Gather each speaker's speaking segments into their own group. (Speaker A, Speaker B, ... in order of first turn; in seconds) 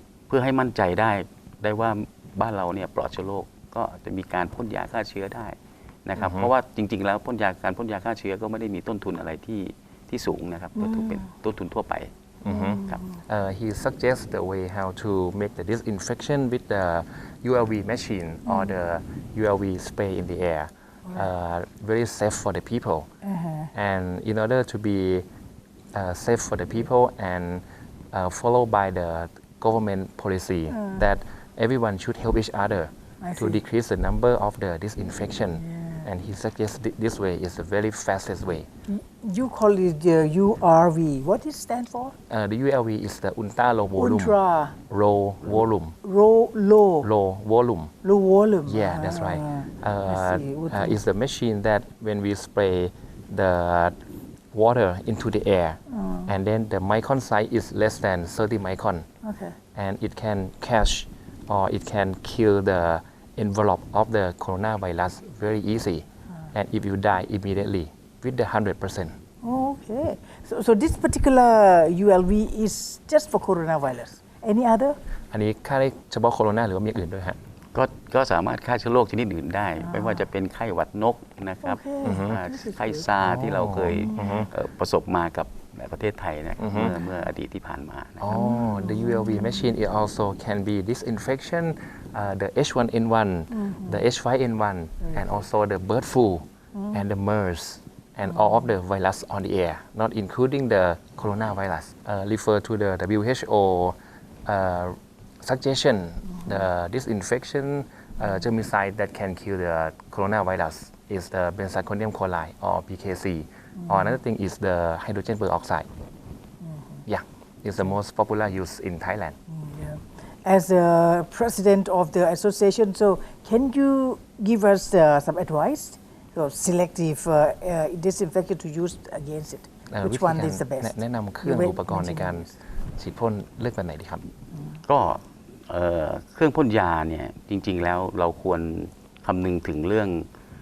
Speaker A: 0.3-12.1, 77.7-88.5, 134.9-140.3
Speaker B: 6.2-6.5, 12.4-23.1, 23.7-25.3, 25.9-38.7, 42.3-44.4, 44.9-46.0, 47.0-47.9, 48.7-54.0, 54.5-59.1, 59.8-69.2, 75.3-77.4, 82.0-82.4, 83.2-84.5, 86.6-86.9, 88.2-115.9, 117.1-119.4, 129.9-134.3
Speaker C: 10.8-11.3, 12.5-13.2, 18.5-18.7, 23.2-23.7, 30.7-31.0, 33.2-33.6, 35.6-36.1, 38.9-42.1, 44.0-44.8, 46.0-47.1, 48.0-51.0, 55.9-56.3, 59.2-59.5, 69.4-75.0, 79.8-80.2, 81.6-83.1, 83.9-84.5, 86.8-87.3, 88.3-89.7, 93.5-94.1, 96.8-97.0, 98.3-98.7, 113.8-114.2, 116.6-117.0, 119.5-132.5